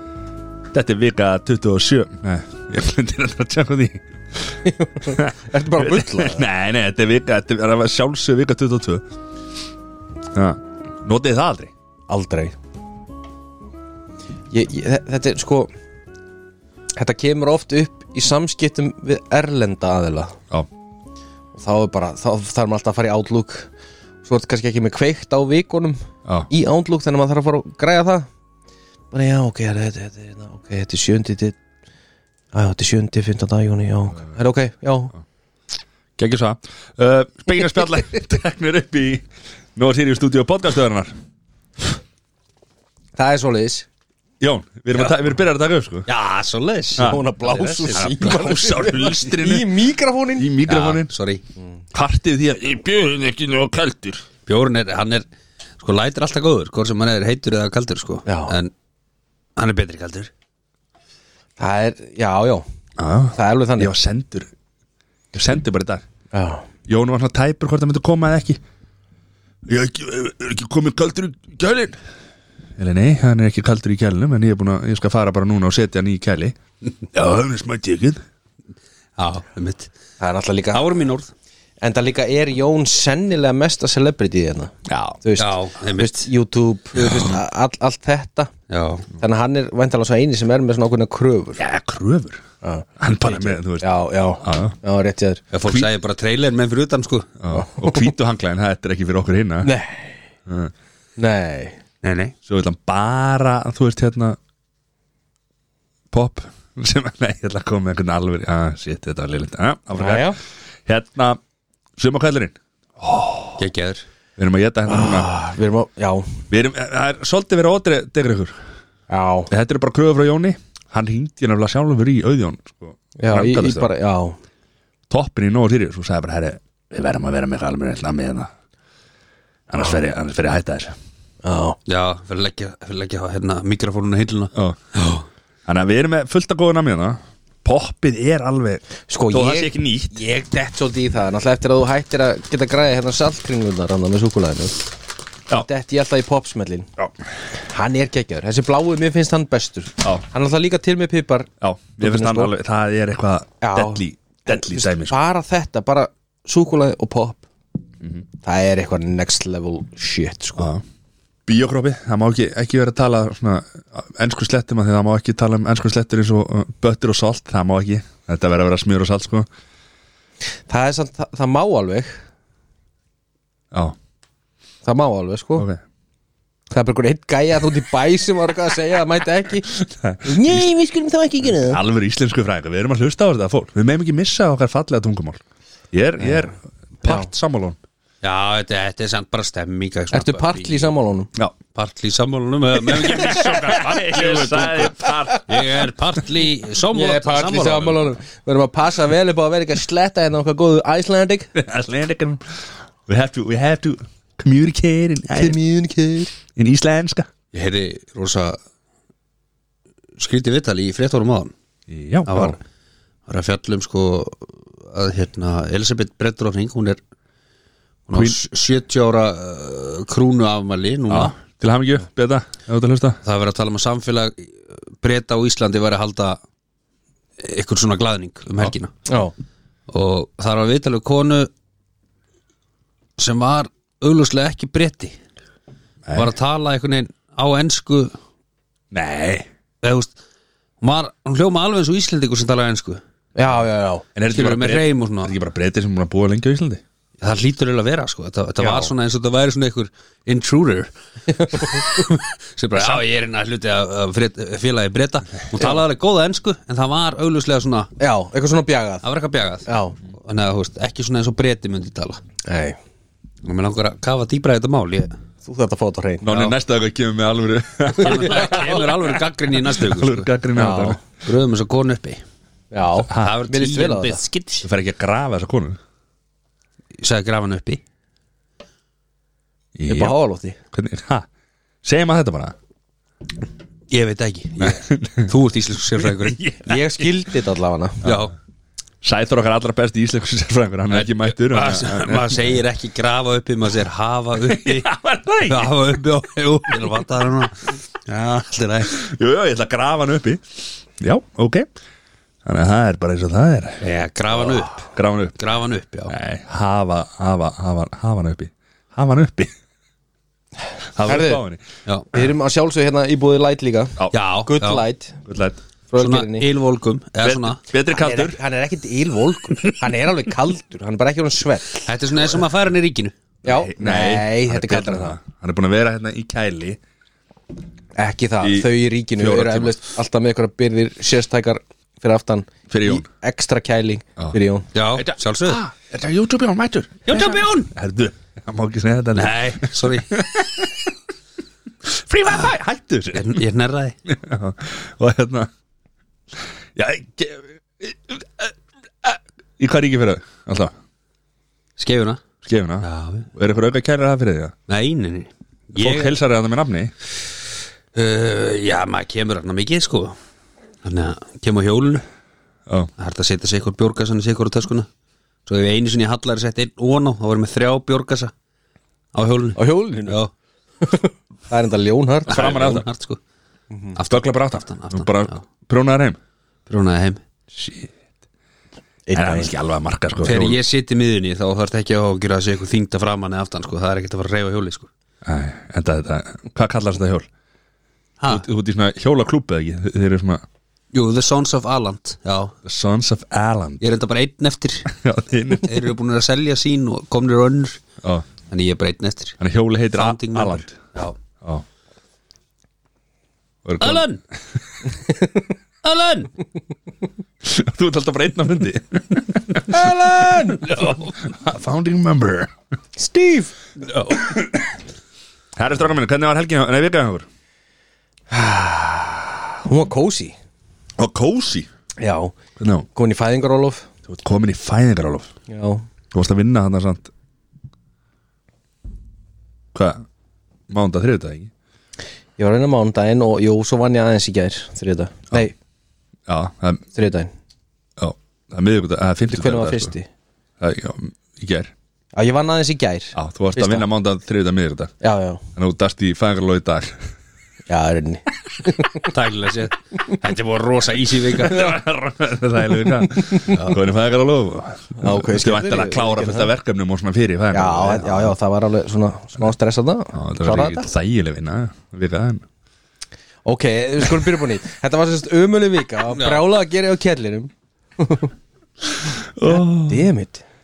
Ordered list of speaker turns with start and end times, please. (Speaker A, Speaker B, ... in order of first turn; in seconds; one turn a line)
Speaker A: 0.7-9.1
Speaker B: 4.6-6.5
Speaker A: 10.3-11.7
Speaker B: 12.1-12.6
Speaker B: 14.5-15.7
Speaker B: 17.0-20.4
Speaker B: 21.6-23.7
Speaker B: 24.2-28.3
Speaker B: 29.1-31.6
Speaker B: 32.5-35.1
Speaker A: 36.2-39.2
Speaker A: 39.8-41.1
Speaker B: 43.2-43.9
Speaker A: 44.4-46.1
Speaker C: 46.1-48.1
Speaker A: 47.0-49.7
Speaker B: 47.0-50.5
Speaker A: 50.4-51.1
Speaker C: 50.6-51.4
Speaker A: 51.9-54.3
Speaker C: 54.5-55.2
Speaker C: 55.8-58.7
Speaker B: 58.3-58.5
Speaker C: 59.6-60.3
Speaker B: 61.6-62.6
Speaker A: 63.0-64.5
Speaker B: 63.4-63.9
Speaker A: 65.3-66.0
Speaker B: 66.3-66.7
Speaker A: 66.9-68.6
Speaker A: 69.7-72.0
Speaker A: 72.8-78.2
Speaker C: 79.2-79.9
Speaker B: 80.2-80.8
Speaker C: 80.7-81.3
Speaker B: 81.8-88.5
Speaker A: 84.8-85.2
Speaker C: 85.4-86.3
Speaker A: 87.0-87.4
Speaker C: 88.7-89.1
Speaker B: 89.2-91.6
Speaker A: 91.6-92.4
Speaker B: 92.6-95.4
Speaker A: 93.0-93.9
Speaker A: 94.4-94.8
Speaker C: 95.5-97.3
Speaker A: 97.4-99.7
Speaker B: 97.5-98.1
Speaker B: 99.6-100.2
Speaker A: 100.5-100.7
Speaker B: 101.2-101.8
Speaker C: 102.0-102.3
Speaker A: 102.4-104.4
Speaker A: 106.1-111.4
Speaker B: 109.9-110.4
Speaker A: 112.0-113.6
Speaker C: 113.6-114.0
Speaker A: 114.4-115.3
Speaker B: 114.9-116.4
Speaker A: 116.5-118.6
Speaker B: 119.1-119.5
Speaker A: 119.5-123.9
Speaker B: 123.2-124.4
Speaker A: 125.1-128.5
Speaker A: 129.7-130.9
Speaker B: 131.4-131.8
Speaker C: 131.9-134.5
Speaker A: 135.7-140.2
Speaker B: 139.1-144.9
Speaker B: 145.5-146.9
Speaker B: 147.7-151.5
Speaker A: 151.6-155.2
Speaker B: 152.0-152.5
Speaker B: 153.6-157.4
Speaker B: 158.4-160.7
Speaker A: 160.6-160.8
Speaker A: 161.4-169.5
Speaker B: 170.7-172.2
Speaker B: 174.8-175.7
Speaker B: 176.7-181.8
Speaker A: 179.7-180.7
Speaker A: 181.5-185.4
Speaker A: 185.9-187.8
Speaker B: 186.2-186.5
Speaker B: 187.0-187.3
Speaker C: 188.2-190.9
Speaker B: 190.1-191.3
Speaker C: 191.7-198.0
Speaker A: 192.8-195.7
Speaker B: 196.9-201.5
Speaker A: 201.5-205.6
Speaker B: 205.3-206.3
Speaker A: 206.5-207.3
Speaker C: 207.5-208.6
Speaker C: 210.2-211.5
Speaker A: 211.9-212.6
Speaker C: 212.3-212.6
Speaker C: 213.3-217.0
Speaker C: 218.1-221.3
Speaker A: 218.1-218.4
Speaker A: 221.1-223.2
Speaker C: 223.2-226.4
Speaker C: 227.4-228.9
Speaker B: 229.1-229.3
Speaker C: 229.9-231.5
Speaker C: 233.2-235.2
Speaker A: 236.1-236.3
Speaker C: 236.1-238.1
Speaker A: 238.9-239.5
Speaker C: 239.8-240.1
Speaker C: 240.8-243.0
Speaker B: 243.4-244.1
Speaker A: 244.1-246.8
Speaker C: 244.3-245.3
Speaker C: 247.2-250.9
Speaker B: 251.3-251.9
Speaker C: 251.5-257.9
Speaker B: 258.0-259.1
Speaker C: 259.0-262.2
Speaker B: 259.6-260.0
Speaker B: 262.5-262.8
Speaker C: 263.4-265.1
Speaker B: 265.4-266.5
Speaker A: 266.2-269.1
Speaker C: 268.0-270.3
Speaker A: 269.8-271.0
Speaker B: 270.6-271.0
Speaker C: 271.2-272.2
Speaker B: 272.7-274.2
Speaker C: 273.1-274.6
Speaker A: 273.1-273.4
Speaker A: 274.6-275.8
Speaker C: 277.0-277.8
Speaker A: 279.8-280.1
Speaker B: 279.9-280.6
Speaker A: 280.7-281.3
Speaker A: 281.8-282.6
Speaker C: 283.9-286.4
Speaker A: 284.6-285.3
Speaker A: 286.0-287.1
Speaker B: 286.6-288.0
Speaker A: 288.0-288.3
Speaker C: 288.0-288.3
Speaker A: 289.0-292.5
Speaker C: 290.9-294.9
Speaker A: 294.4-296.2
Speaker C: 295.4-299.0
Speaker A: 298.9-300.4
Speaker A: 301.0-301.7
Speaker A: 302.4-303.9
Speaker C: 303.8-306.1
Speaker A: 304.4-305.4
Speaker A: 306.1-309.5
Speaker A: 310.9-311.6
Speaker B: 311.1-311.4
Speaker B: 312.1-315.2
Speaker C: 314.1-314.8
Speaker A: 315.2-315.6
Speaker B: 315.9-316.4
Speaker C: 316.0-317.6
Speaker A: 317.2-318.4
Speaker B: 317.9-321.9
Speaker C: 321.9-323.1
Speaker B: 323.4-325.2
Speaker A: 323.4-326.8
Speaker B: 327.9-334.7
Speaker A: 328.4-329.8
Speaker A: 332.7-333.1
Speaker C: 334.8-335.6
Speaker A: 334.9-340.9
Speaker C: 337.1-337.7
Speaker C: 339.1-340.2
Speaker A: 341.8-343.4
Speaker C: 343.1-343.9
Speaker A: 344.1-345.5
Speaker A: 346.8-350.7
Speaker C: 351.8-352.2
Speaker A: 352.4-354.5
Speaker C: 352.8-353.3
Speaker C: 354.7-356.2
Speaker A: 355.8-356.9
Speaker C: 357.9-360.2
Speaker C: 360.8-362.0
Speaker C: 363.0-364.9
Speaker C: 365.4-368.3
Speaker C: 369.1-370.3
Speaker B: 369.6-370.2
Speaker B: 370.8-372.8
Speaker A: 372.3-372.9
Speaker C: 372.3-373.2
Speaker B: 373.7-373.9
Speaker C: 373.9-375.4
Speaker A: 374.1-376.2
Speaker C: 376.7-377.2
Speaker A: 377.5-377.9
Speaker B: 379.1-379.5
Speaker A: 379.1-380.6
Speaker C: 380.2-384.9
Speaker A: 385.2-387.3
Speaker A: 388.3-390.4
Speaker C: 390.9-392.5
Speaker A: 392.6-393.8
Speaker C: 393.8-394.9
Speaker A: 394.9-395.7
Speaker C: 395.6-397.8
Speaker C: 398.5-399.4
Speaker A: 399.4-400.8
Speaker C: 399.9-401.1
Speaker A: 403.6-404.1
Speaker C: 403.8-404.2
Speaker C: 405.8-406.3
Speaker A: 407.4-412.5
Speaker B: 409.7-410.9
Speaker B: 413.0-413.5
Speaker C: 413.8-414.3
Speaker A: 414.2-414.5
Speaker A: 415.6-417.2
Speaker B: 418.3-420.4
Speaker A: 421.0-421.7
Speaker B: 422.0-422.3
Speaker A: 422.6-422.9
Speaker B: 422.9-423.9
Speaker A: 424.1-425.3
Speaker B: 425.5-425.8
Speaker A: 426.1-427.1
Speaker A: 429.7-430.0
Speaker A: 430.7-431.5
Speaker B: 432.4-435.5
Speaker A: 436.3-436.8
Speaker B: 436.9-437.3
Speaker A: 438.0-439.9
Speaker B: 439.3-440.1
Speaker A: 440.6-441.7
Speaker B: 442.1-443.9
Speaker A: 443.1-444.9
Speaker B: 445.0-445.4
Speaker A: 445.6-447.0
Speaker B: 447.7-449.1
Speaker C: 449.0-451.7
Speaker A: 451.4-458.3
Speaker B: 453.1-453.6
Speaker B: 455.0-456.5
Speaker B: 457.5-460.9
Speaker A: 460.1-462.4
Speaker B: 463.4-468.3
Speaker C: 466.1-466.4
Speaker A: 468.9-470.1
Speaker B: 469.4-470.4